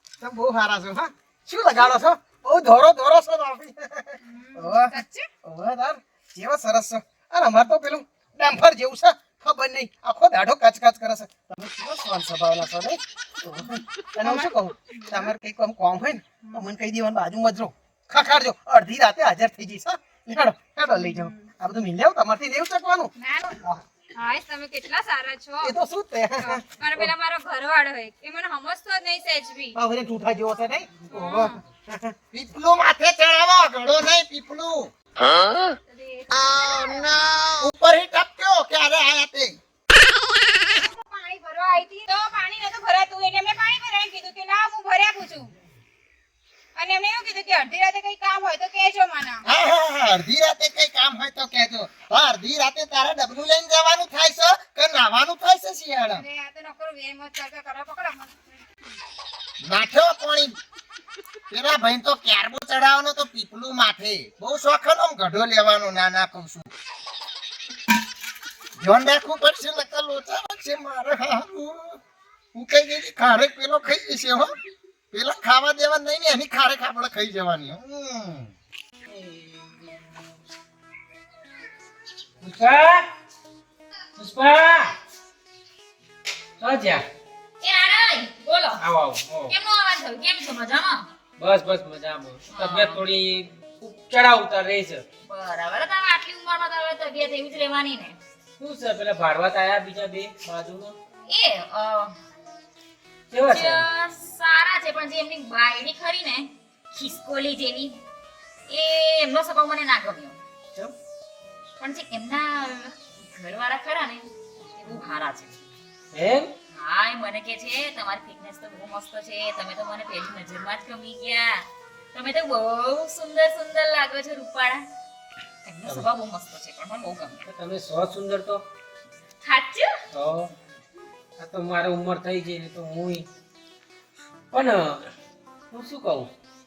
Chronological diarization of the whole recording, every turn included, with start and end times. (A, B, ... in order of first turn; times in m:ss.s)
0:00.2-0:23.1 A
0:04.2-0:05.3 B
0:14.2-0:15.2 B
0:20.9-0:21.5 B
0:23.2-0:23.6 B
0:24.2-0:25.7 B
0:25.6-0:27.1 A
0:26.4-0:29.8 B
0:29.8-0:31.2 A
0:31.1-0:31.6 B
0:31.9-0:32.1 A
0:32.3-0:34.9 C
0:35.9-0:37.2 B
0:37.6-0:39.6 C
0:40.7-0:45.5 B
0:46.7-0:49.4 B
0:49.4-0:56.2 C
0:56.1-0:59.0 B
0:59.6-1:00.6 C
1:01.5-1:06.7 C
1:08.8-1:12.0 C
1:12.5-1:14.5 C
1:15.1-1:18.5 C
1:19.1-1:19.6 D
1:22.4-1:23.0 D
1:24.2-1:25.0 D
1:26.6-1:27.0 D
1:27.6-1:28.8 E
1:28.8-1:29.5 D
1:29.5-1:31.1 E
1:31.4-1:35.0 D
1:32.5-1:33.0 E
1:35.2-1:38.2 E
1:38.6-1:40.9 D
1:41.3-1:42.2 E
1:43.3-1:43.8 D
1:43.4-1:48.0 E
1:48.7-1:50.4 E
1:51.8-1:55.6 E
1:56.1-1:56.5 D
1:56.7-2:04.8 E
2:05.6-2:07.4 E
2:07.4-2:08.6 D
2:09.4-2:09.9 E
2:10.1-2:10.5 D
2:11.4-2:13.2 D
2:14.5-2:15.0 D
2:15.7-2:16.3 D